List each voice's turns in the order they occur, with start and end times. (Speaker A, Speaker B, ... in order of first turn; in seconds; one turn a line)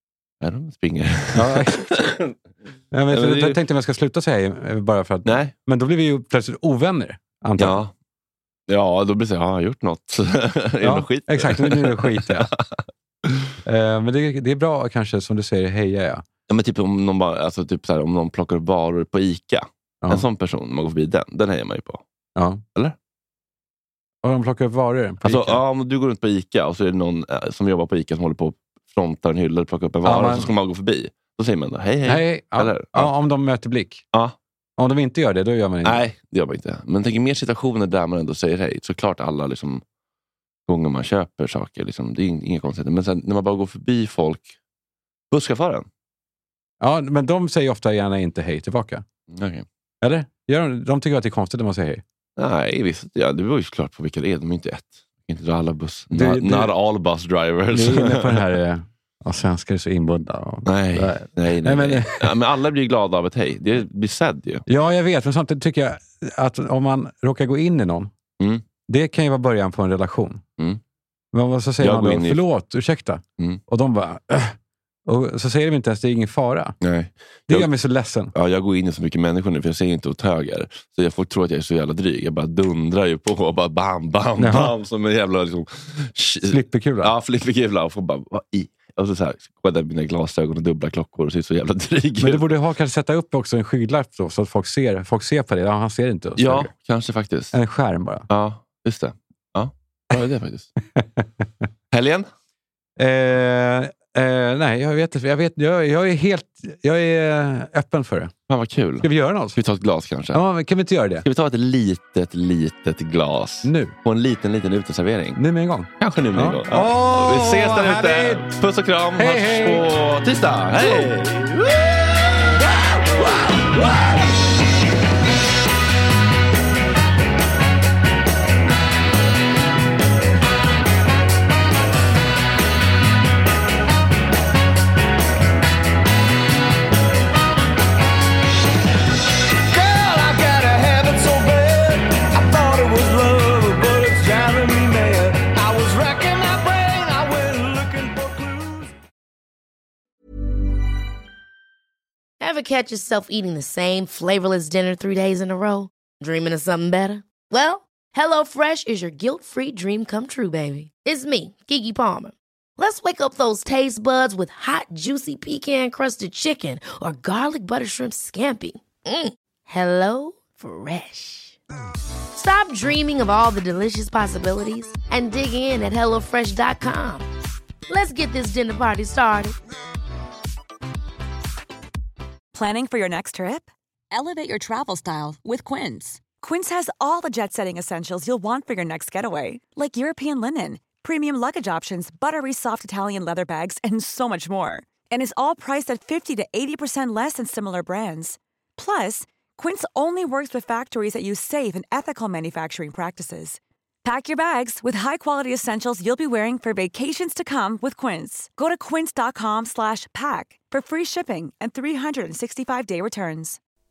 Speaker A: 0.4-2.3
Speaker B: 1.3-2.1
Speaker B: 2.9-7.8
Speaker A: 3.1-3.6
Speaker A: 5.2-5.5
Speaker A: 7.6-7.9
Speaker A: 8.7-13.5
Speaker B: 10.8-12.5
Speaker B: 13.6-16.2
Speaker A: 16.5-22.0
Speaker B: 22.4-22.6
Speaker B: 24.2-25.6
Speaker A: 25.2-33.1
Speaker B: 30.0-30.5
Speaker B: 32.0-34.0
Speaker B: 34.8-36.0
Speaker A: 35.8-39.8
Speaker A: 40.7-44.5
Speaker A: 45.3-45.9
Speaker B: 46.8-49.0
Speaker A: 49.3-49.6
Speaker B: 50.0-52.0
Speaker A: 52.4-58.5
Speaker B: 56.1-56.7
Speaker B: 57.7-62.3
Speaker A: 60.6-64.6
Speaker B: 64.7-68.1
Speaker A: 68.4-68.6
Speaker B: 68.9-70.4
Speaker B: 71.3-76.8
Speaker A: 71.8-72.4
Speaker A: 76.8-77.7
Speaker B: 77.5-78.3
Speaker A: 78.3-92.5
Speaker B: 84.4-84.7
Speaker B: 86.5-87.1
Speaker B: 92.2-96.7
Speaker A: 96.4-97.5
Speaker B: 97.5-98.3
Speaker A: 98.3-100.7
Speaker B: 100.9-101.4
Speaker A: 101.9-102.3
Speaker B: 103.0-108.3
Speaker A: 108.5-110.4
Speaker B: 109.0-109.6
Speaker B: 110.3-111.2
Speaker A: 111.2-115.4
Speaker B: 113.6-113.9
Speaker B: 115.3-118.6
Speaker A: 116.0-122.6
Speaker B: 119.2-119.9
Speaker C: 139.7-148.9
Speaker D: 152.4-171.6
Speaker D: 172.3-177.2
Speaker D: 177.9-179.5
Speaker E: 182.5-213.6